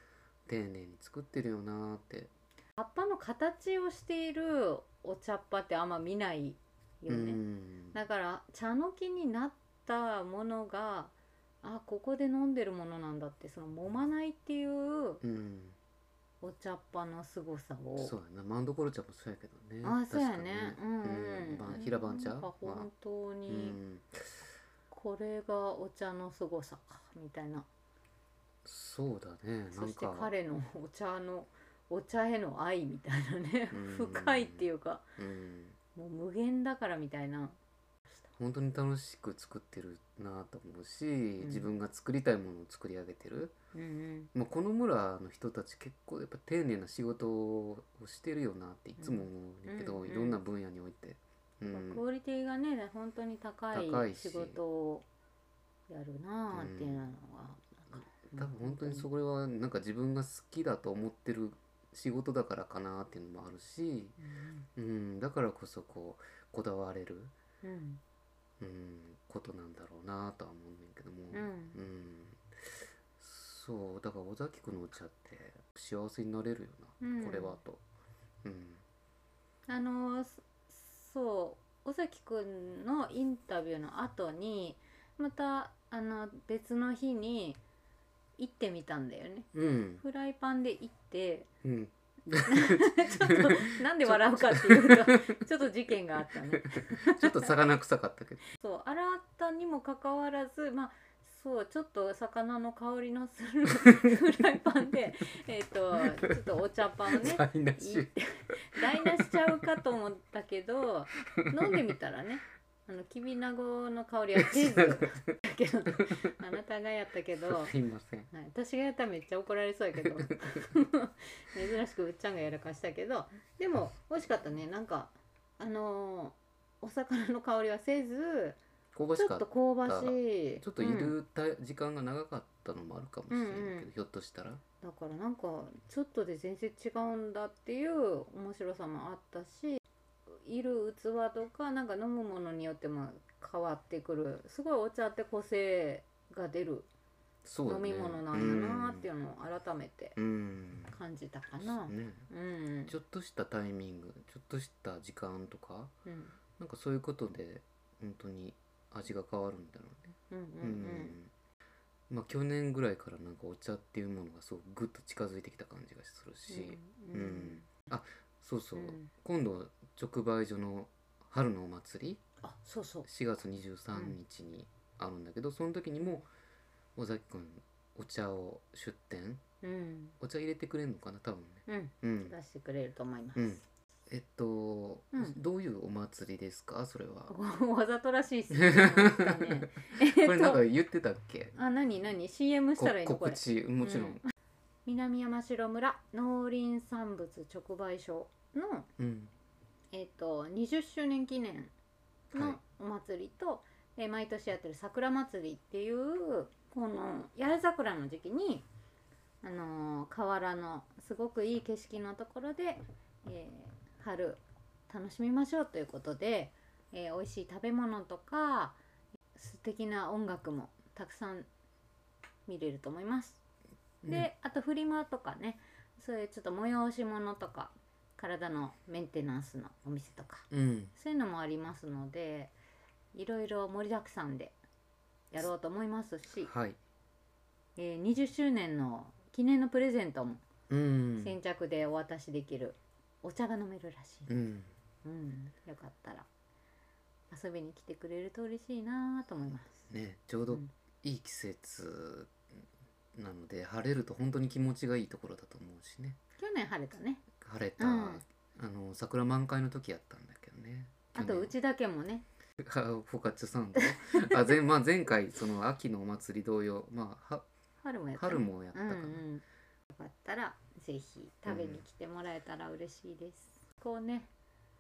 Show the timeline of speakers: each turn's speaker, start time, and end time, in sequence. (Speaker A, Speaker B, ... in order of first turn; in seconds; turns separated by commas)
Speaker A: 0.5-2.3, Speaker B: 2.8-7.4, Speaker A: 7.1-8.0, Speaker B: 7.9-15.2, Speaker A: 15.2-15.8, Speaker B: 16.4-18.1, Speaker A: 18.0-22.9, Speaker B: 19.8-23.8, Speaker A: 23.5-24.4, Speaker B: 24.9-27.7, Speaker A: 28.6-30.3, Speaker B: 29.7-35.0, Speaker A: 33.7-35.8, Speaker B: 35.9-37.6, Speaker A: 38.4-43.5, Speaker B: 41.4-41.7, Speaker B: 43.7-44.3, Speaker A: 44.3-52.0, Speaker B: 49.0-50.4, Speaker B: 51.7-55.0, Speaker A: 53.7-54.6, Speaker B: 55.9-59.1, Speaker A: 56.5-57.1, Speaker A: 58.3-64.2, Speaker B: 64.2-64.7, Speaker A: 64.8-67.3, Speaker B: 67.6-68.0, Speaker A: 68.6-77.8, Speaker B: 71.3-71.8, Speaker B: 77.0-77.6, Speaker A: 78.4-78.8, Speaker B: 79.7-87.6, Speaker B: 88.4-91.5, Speaker A: 89.5-90.0, Speaker A: 91.6-95.4, Speaker B: 92.5-97.6, Speaker A: 96.3-98.4, Speaker B: 98.5-117.7, Speaker A: 106.0-106.4, Speaker A: 107.1-109.8, Speaker A: 111.3-111.9, Speaker A: 114.3-115.3, Speaker A: 115.9-116.2, Speaker A: 117.4-118.3, Speaker B: 118.3-128.6, Speaker A: 120.0-120.7, Speaker A: 128.9-134.6, Speaker B: 129.2-131.2, Speaker B: 133.3-133.9, Speaker B: 134.8-146.9, Speaker A: 147.4-149.1, Speaker B: 147.6-150.2, Speaker A: 150.2-150.9, Speaker B: 150.9-152.9, Speaker A: 151.6-152.3, Speaker A: 152.9-155.9, Speaker B: 156.1-156.4, Speaker A: 156.6-161.3, Speaker B: 160.3-161.2, Speaker A: 162.1-172.2, Speaker B: 166.5-167.8, Speaker B: 168.7-169.1, Speaker B: 172.4-173.1, Speaker A: 173.0-176.3, Speaker A: 176.9-179.4, Speaker B: 179.6-180.2, Speaker A: 180.2-182.3, Speaker B: 181.7-183.6, Speaker A: 183.3-187.3, Speaker B: 187.3-190.6, Speaker A: 188.5-191.5, Speaker B: 191.5-194.3, Speaker A: 192.8-194.2, Speaker B: 194.8-198.9, Speaker A: 199.0-199.3, Speaker B: 199.9-201.7, Speaker B: 202.3-208.7, Speaker A: 202.3-202.6, Speaker B: 209.4-218.8, Speaker B: 219.3-221.5, Speaker B: 222.5-223.4, Speaker A: 224.0-224.3, Speaker B: 224.0-232.5, Speaker A: 230.5-230.9, Speaker B: 233.1-234.6, Speaker B: 235.3-236.5, Speaker A: 236.4-236.8, Speaker B: 237.8-240.4, Speaker A: 240.7-241.4, Speaker B: 241.2-244.3, Speaker A: 244.3-244.7, Speaker B: 245.0-246.2, Speaker B: 247.3-249.9, Speaker A: 249.9-256.2, Speaker B: 256.4-257.3, Speaker A: 257.4-261.5, Speaker B: 257.8-258.2, Speaker B: 261.1-262.2, Speaker A: 262.6-267.4, Speaker B: 267.8-274.3, Speaker A: 268.1-269.2, Speaker A: 271.4-271.8